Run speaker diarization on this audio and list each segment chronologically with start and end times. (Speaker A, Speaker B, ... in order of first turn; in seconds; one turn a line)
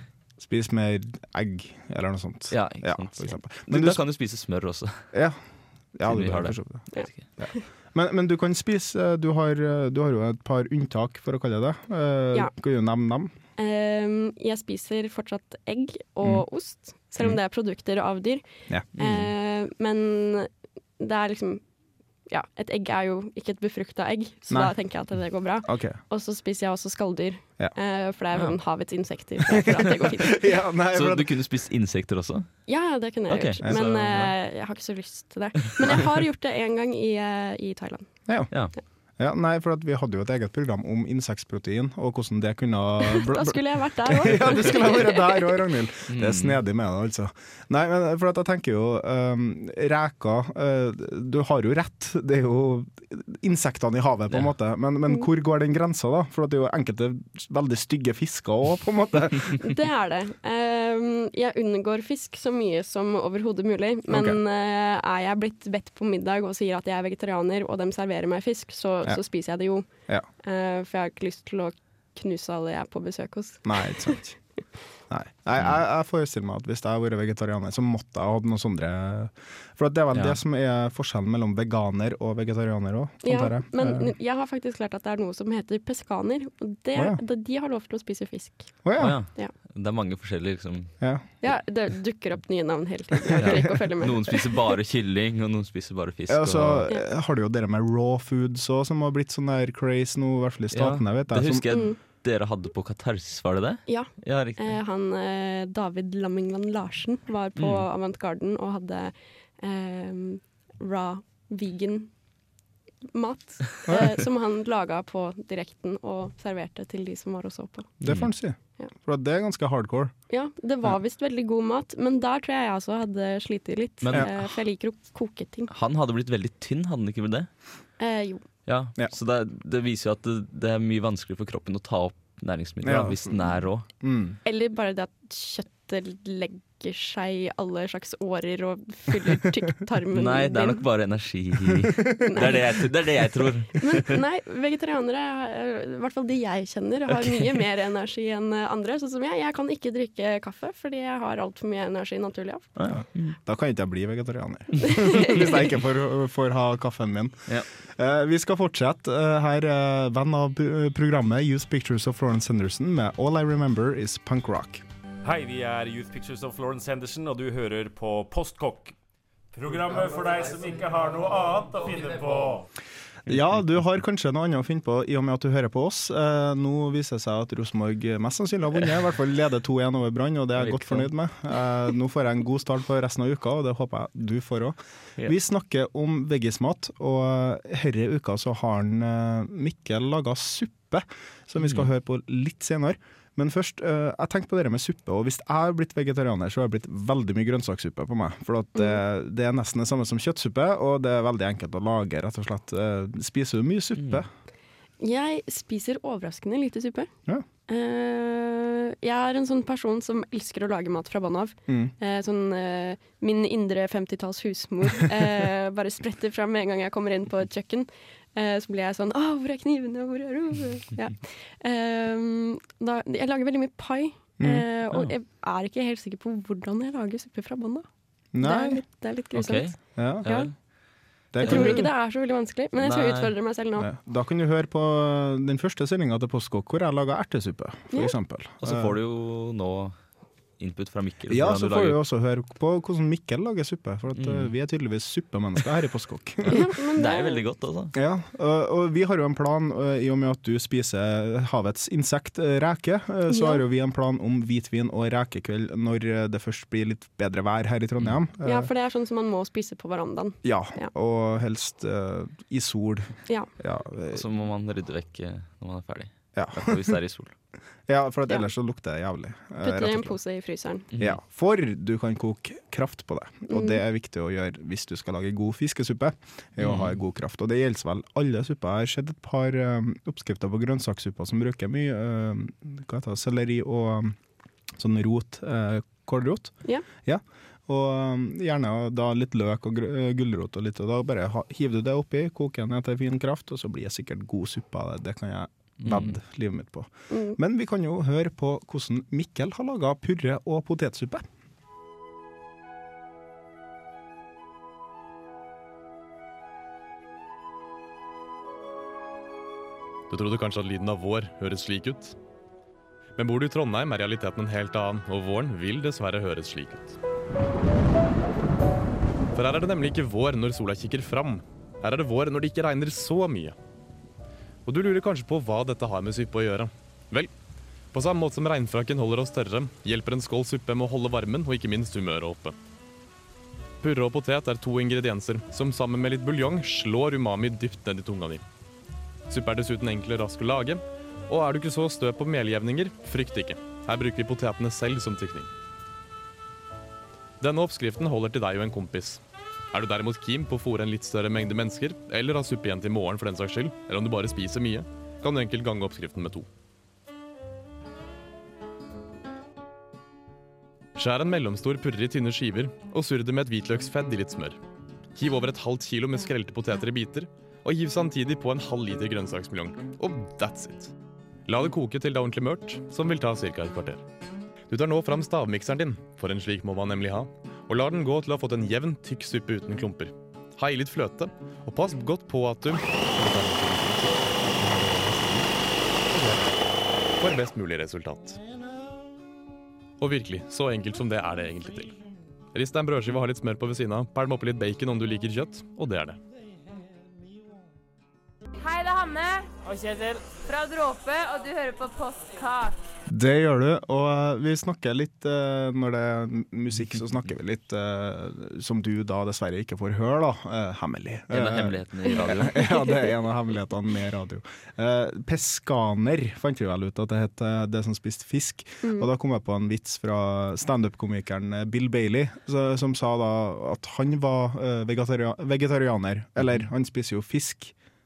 Speaker A: 0.4-4.0
Speaker B: 2.5-5.1
Speaker A: 5.1-5.4
Speaker A: 5.9-13.3
Speaker B: 6.0-7.2
Speaker C: 6.9-7.6
Speaker C: 13.6-21.6
Speaker A: 18.7-19.1
Speaker C: 22.3-30.6
Speaker A: 25.6-26.0
Speaker A: 29.6-31.3
Speaker B: 30.9-32.5
Speaker C: 32.7-38.2
Speaker B: 33.3-34.3
Speaker A: 33.6-34.3
Speaker A: 38.3-38.5
Speaker A: 39.2-59.6
Speaker C: 43.0-45.7
Speaker B: 46.1-46.6
Speaker C: 59.6-69.9
Speaker A: 64.1-64.4
Speaker C: 70.4-74.2
Speaker A: 73.6-74.4
Speaker A: 75.1-84.1
Speaker C: 83.2-89.5
Speaker A: 86.9-87.2
Speaker A: 88.8-89.2
Speaker B: 89.0-91.5
Speaker C: 91.4-94.6
Speaker B: 93.3-96.9
Speaker A: 96.3-101.7
Speaker B: 100.7-104.8
Speaker C: 101.7-102.0
Speaker C: 103.9-112.1
Speaker B: 107.6-107.8
Speaker C: 113.1-117.9
Speaker A: 118.0-120.1
Speaker B: 118.0-118.3
Speaker C: 120.3-125.7
Speaker B: 124.0-124.6
Speaker B: 125.7-127.5
Speaker C: 128.0-128.4
Speaker B: 128.7-133.8
Speaker A: 132.8-134.4
Speaker C: 134.4-140.8
Speaker B: 140.1-144.2
Speaker C: 142.2-142.8
Speaker C: 143.7-152.7
Speaker B: 152.8-153.3
Speaker A: 153.4-164.8
Speaker C: 155.0-155.3
Speaker D: 165.2-168.9
Speaker D: 169.5-172.7
Speaker A: 173.2-204.3
Speaker B: 180.6-181.1
Speaker B: 191.6-191.9
Speaker B: 204.0-204.2
Speaker C: 205.0-207.1
Speaker C: 207.7-227.9
Speaker A: 211.7-211.9
Speaker A: 224.4-224.7
Speaker A: 228.3-228.8
Speaker C: 228.4-230.5
Speaker B: 229.3-230.5
Speaker A: 229.9-230.3
Speaker A: 231.3-231.9
Speaker C: 231.4-233.9
Speaker B: 231.4-231.9
Speaker B: 232.8-233.3
Speaker A: 233.8-238.9
Speaker B: 238.6-240.0
Speaker B: 240.6-242.0
Speaker A: 241.3-246.7
Speaker B: 244.2-244.5
Speaker B: 246.4-247.9
Speaker C: 246.5-247.4
Speaker A: 247.9-258.7
Speaker C: 253.3-253.6
Speaker C: 258.4-260.9
Speaker A: 260.4-264.2
Speaker B: 264.1-267.3
Speaker A: 266.4-267.0
Speaker A: 267.9-270.2
Speaker C: 269.6-270.8
Speaker A: 271.0-284.2
Speaker C: 273.5-273.8
Speaker B: 276.6-276.9
Speaker A: 284.7-301.3
Speaker B: 295.8-296.2
Speaker C: 297.1-297.4
Speaker E: 310.1-312.1
Speaker E: 313.2-316.9
Speaker E: 319.3-323.6
Speaker E: 324.6-327.3
Speaker E: 327.9-332.6
Speaker E: 333.8-338.4
Speaker E: 339.3-345.5
Speaker E: 347.4-349.2
Speaker E: 349.7-356.5
Speaker E: 361.0-364.6
Speaker E: 365.1-370.9
Speaker E: 371.5-374.0
Speaker E: 374.7-385.5
Speaker E: 386.1-386.5
Speaker E: 387.2-388.4
Speaker E: 390.0-391.9
Speaker E: 392.5-396.2
Speaker F: 398.6-402.8
Speaker A: 403.1-427.7
Speaker B: 411.3-412.7
Speaker C: 412.1-412.9
Speaker C: 418.8-419.1